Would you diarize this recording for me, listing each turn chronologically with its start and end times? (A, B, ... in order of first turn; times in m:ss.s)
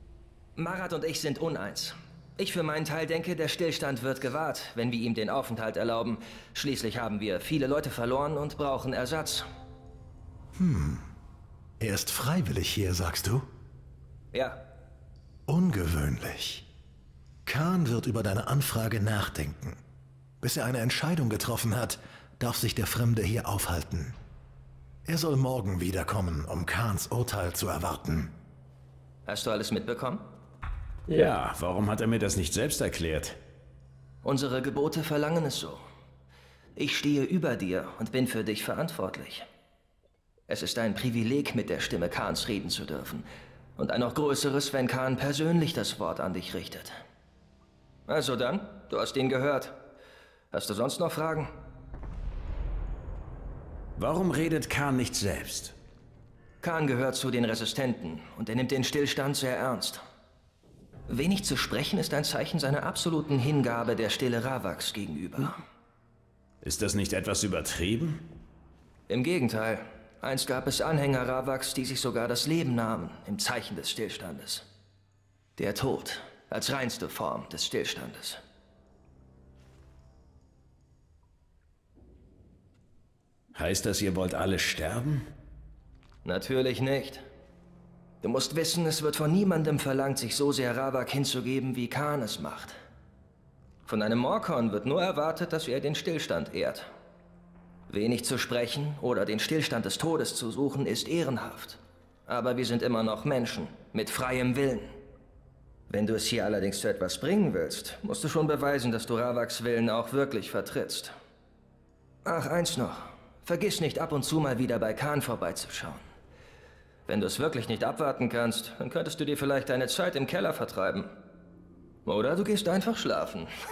0:00.6-0:09.4 A
0:10.6-0:11.0 B
0:11.8-0:13.5 B
0:14.3-0:14.6 A
0:15.5-0:16.6 B
0:17.4-0:19.8 B
0:20.4-0:24.2 B
0:25.0-0:28.3 B
0:29.2-0:30.2 A
0:31.1-0:33.4 C
0:34.2-0:35.8 A
0:36.8-0:39.4 A
0:40.5-0:46.9 A
0:48.1-0:49.8 A
0:50.5-0:51.5 A
0:54.0-0:55.7 C
0:56.6-1:00.0 A
1:01.1-1:05.6 A
1:06.6-1:08.2 C
1:09.1-1:14.6 A
1:15.6-1:18.4 A
1:23.5-1:25.2 C
1:26.2-1:27.2 A
1:28.2-1:32.8 A
1:33.9-1:36.9 A
1:37.9-1:44.9 A
1:45.9-1:51.1 A
1:52.2-1:56.0 A
1:57.1-2:01.1 A
2:02.0-2:03.5 A